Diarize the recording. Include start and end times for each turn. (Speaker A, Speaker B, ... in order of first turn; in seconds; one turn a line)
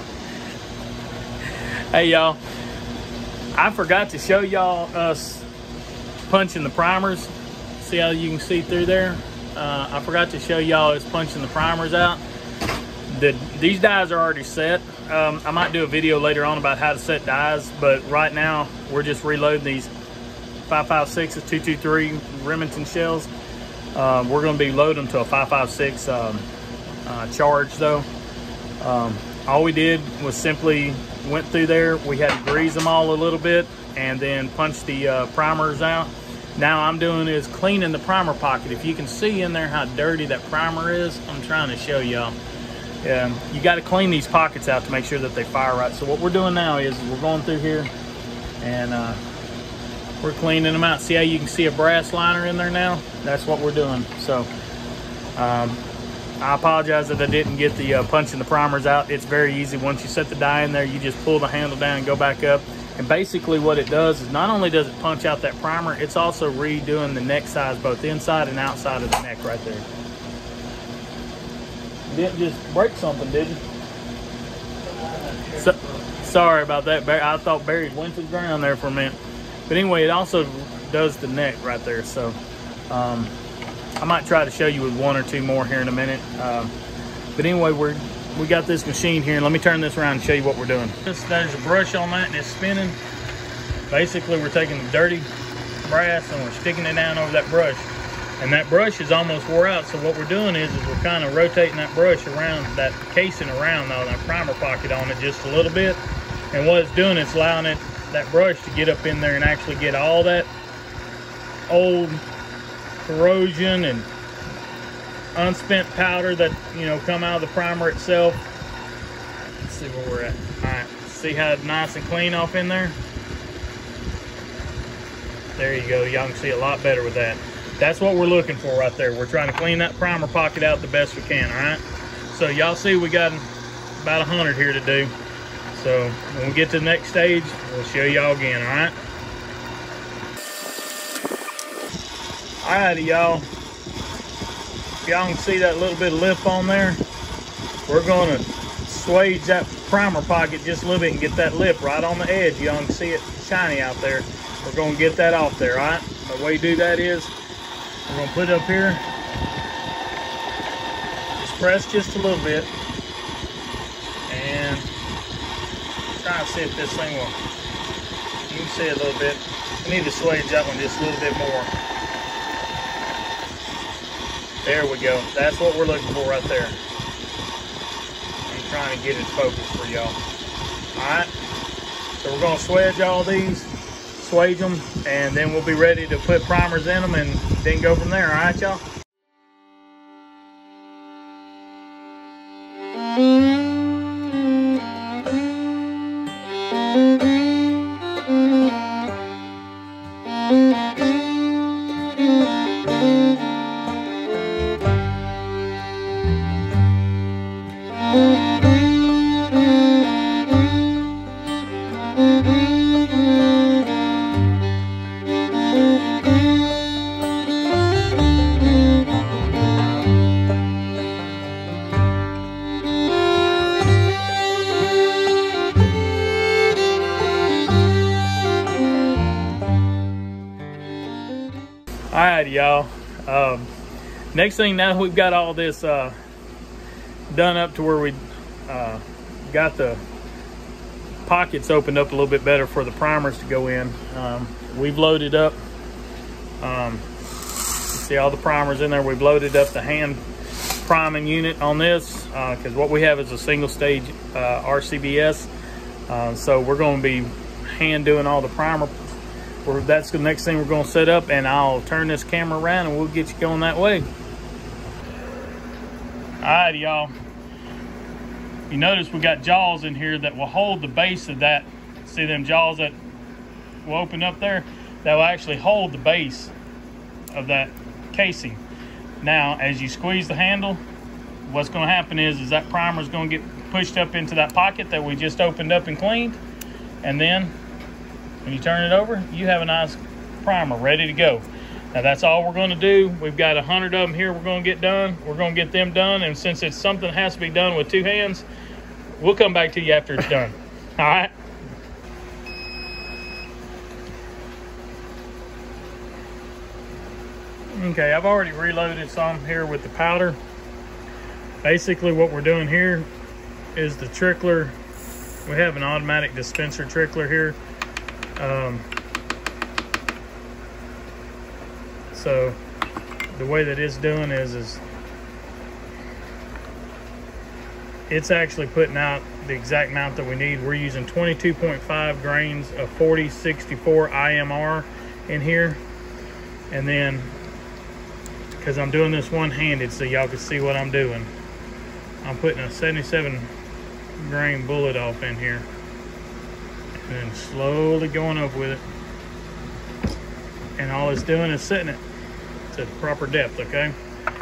Speaker A: 1.4-2.4
Speaker A: 3.5-5.5
Speaker A: 6.3-12.2
Speaker A: 13.1-19.9
Speaker A: 20.6-23.3
Speaker A: 23.9-26.5
Speaker A: 27.0-28.1
Speaker A: 28.8-42.4
Speaker A: 43.0-47.9
Speaker A: 48.6-49.2
Speaker A: 50.2-54.5
Speaker A: 55.4-55.8
Speaker A: 56.4-69.9
Speaker A: 72.1-73.6
Speaker A: 75.3-82.4
Speaker A: 82.9-83.3
Speaker A: 84.0-86.7
Speaker A: 87.3-93.0
Speaker A: 93.9-95.3
Speaker A: 95.8-110.5
Speaker A: 111.7-112.2
Speaker A: 113.0-114.1
Speaker A: 115.3-118.5
Speaker A: 119.6-123.0
Speaker A: 125.5-135.1
Speaker A: 135.7-138.9
Speaker A: 142.6-143.5
Speaker A: 145.0-147.0
Speaker A: 147.8-157.3
Speaker A: 158.1-159.1
Speaker A: 161.4-162.7
Speaker A: 164.3-164.9
Speaker A: 166.1-167.3
Speaker A: 168.5-171.7
Speaker A: 174.6-176.8
Speaker A: 178.5-180.2
Speaker A: 180.9-181.3
Speaker A: 182.2-188.8
Speaker A: 232.1-233.7
Speaker A: 234.3-236.2
Speaker A: 237.3-240.0
Speaker A: 241.2-245.6
Speaker A: 246.6-247.1
Speaker A: 247.9-255.5
Speaker A: 256.1-258.9
Speaker A: 259.6-264.1
Speaker A: 266.4-267.1
Speaker A: 268.7-273.0
Speaker A: 273.8-276.5
Speaker A: 277.3-278.6
Speaker A: 279.2-280.8
Speaker A: 281.4-286.4
Speaker A: 287.0-287.5
Speaker A: 288.4-298.4
Speaker A: 299.1-301.3
Speaker A: 307.7-310.4
Speaker A: 311.6-313.1
Speaker A: 313.7-314.8
Speaker A: 315.4-317.6
Speaker A: 318.4-318.9
Speaker A: 322.1-322.6
Speaker A: 323.3-324.8
Speaker A: 328.1-335.8
Speaker A: 336.7-337.4
Speaker A: 338.6-341.3
Speaker A: 342.2-343.5
Speaker A: 344.2-345.7
Speaker A: 347.0-348.8
Speaker A: 350.8-352.0
Speaker A: 352.7-353.9